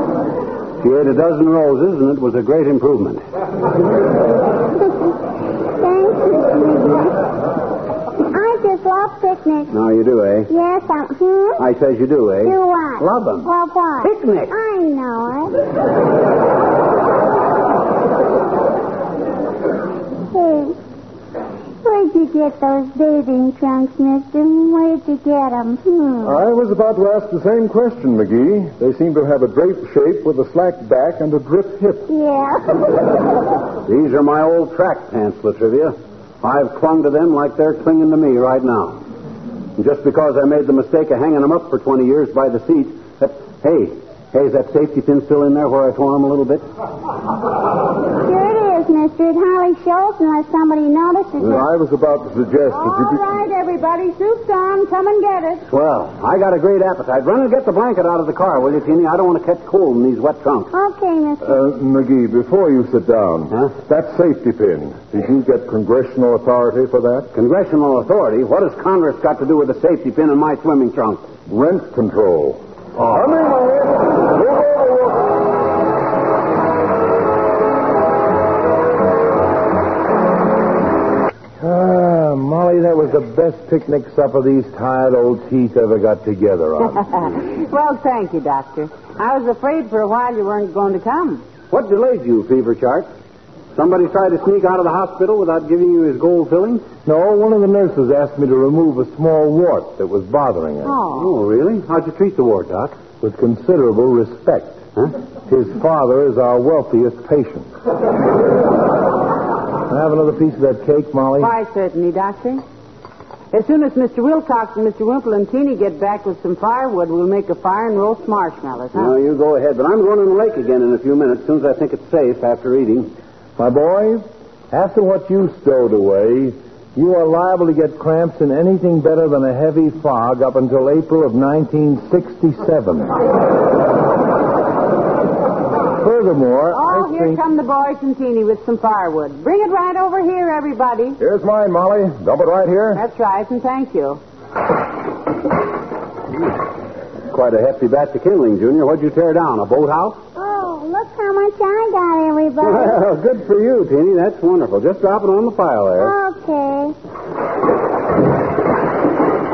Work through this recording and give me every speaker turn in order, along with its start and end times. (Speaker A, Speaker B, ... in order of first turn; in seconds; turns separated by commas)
Speaker A: 0.8-3.2, Speaker B: 4.8-7.2, Speaker B: 8.3-9.7, Speaker A: 9.7-10.5, Speaker B: 10.5-11.6, Speaker A: 11.6-13.5, Speaker B: 12.4-15.6, Speaker A: 14.0-14.5, Speaker B: 20.3-20.8, Speaker B: 21.8-26.4, Speaker C: 26.2-32.1, Speaker B: 32.1-32.9, Speaker A: 33.9-39.0, Speaker A: 39.8-46.6, Speaker B: 48.2-51.6, Speaker C: 51.4-53.2, Speaker D: 52.8-55.6, Speaker A: 55.7-60.7, Speaker B: 60.7-61.6, Speaker C: 61.4-67.3, Speaker A: 67.3-71.2, Speaker C: 71.5-75.4, Speaker E: 81.6-87.1, Speaker D: 87.3-91.4, Speaker A: 91.7-93.1, Speaker A: 93.7-96.9, Speaker E: 97.0-100.9, Speaker D: 100.9-101.3, Speaker A: 101.1-103.0, Speaker E: 103.2-104.8, Speaker E: 105.5-107.7, Speaker E: 109.9-111.5, Speaker D: 111.4-112.6, Speaker D: 113.5-119.2, Speaker A: 118.9-123.1, Speaker E: 123.6-133.1, Speaker E: 136.0-137.4, Speaker D: 136.7-141.2, Speaker C: 141.2-143.0, Speaker D: 142.9-144.2, Speaker A: 147.3-150.2, Speaker B: 150.3-153.0, Speaker A: 152.6-156.1, Speaker B: 156.0-156.9